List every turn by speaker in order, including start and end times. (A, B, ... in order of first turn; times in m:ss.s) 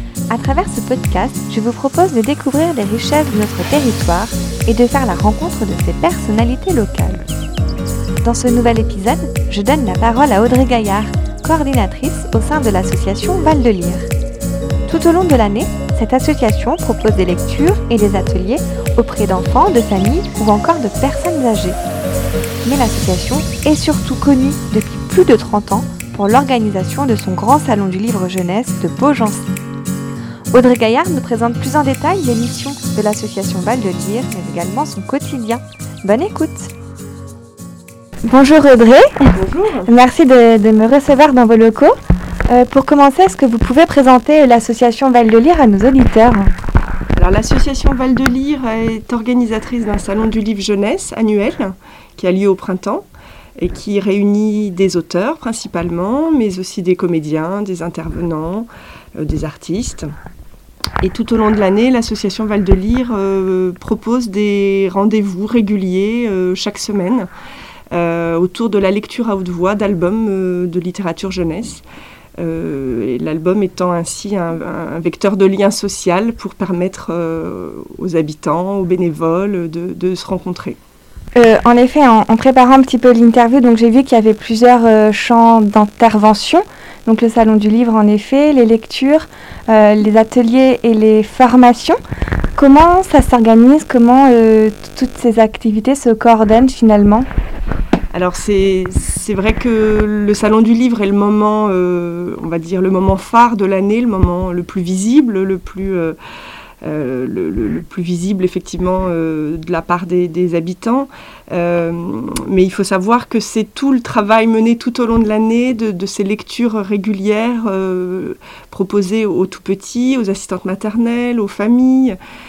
0:00.3-0:07.3 A
0:08.2-0:14.0 A
0:14.9-0:21.8 A
0:22.6-0:29.4 A
0:30.5-0:36.7 A
0:38.2-0:39.3 A
0:39.3-0:39.9 B
0:39.8-0:41.9 A
0:42.5-0:46.5 A
0:47.2-0:53.0 B
0:53.6-1:00.1 B
1:01.0-1:07.3 B
1:07.9-1:11.8 B
1:12.4-1:20.8 B
1:21.4-1:32.0 A
1:32.6-1:37.3 A
1:38.1-1:46.2 B
1:46.8-2:02.2 B